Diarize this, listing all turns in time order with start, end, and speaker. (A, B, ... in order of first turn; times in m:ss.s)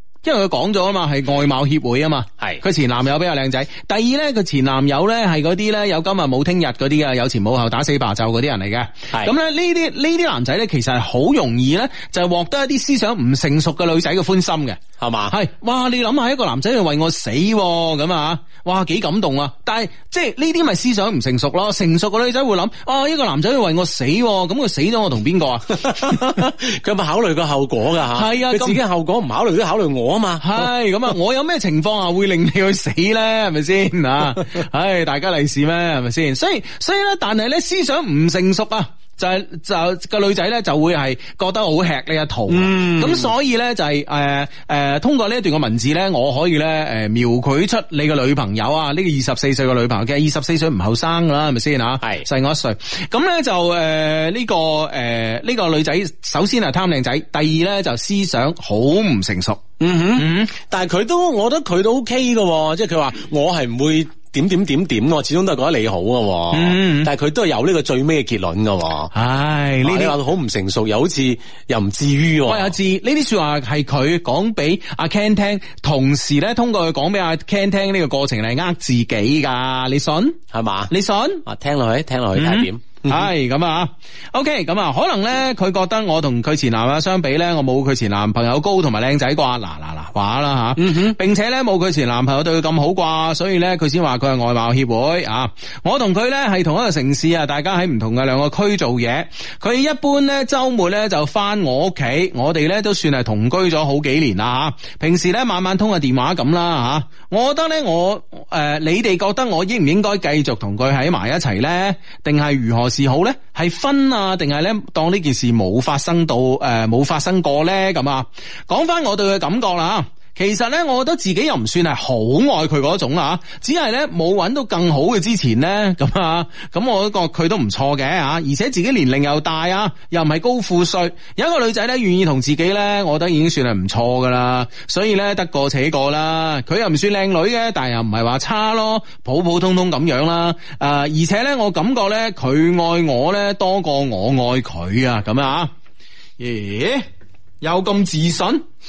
0:00.2-0:26.4 A
0:15.0-0:15.3 B
0:25.8-0:30.7 B
0:28.1-0:28.8 A
0:30.4-0:59.6 A
0:42.5-0:43.3 B
0:59.8-1:09.1 B
1:00.1-1:00.5 A
1:06.5-1:07.1 A
1:09.1-1:10.2 A
1:09.8-1:12.7 B
1:12.4-1:21.4 A
1:20.5-1:20.9 B
1:21.4-1:23.3 B
1:22.4-2:25.7 A
1:30.8-1:31.2 B
2:26.4-2:27.0 A
2:27.6-2:28.6 A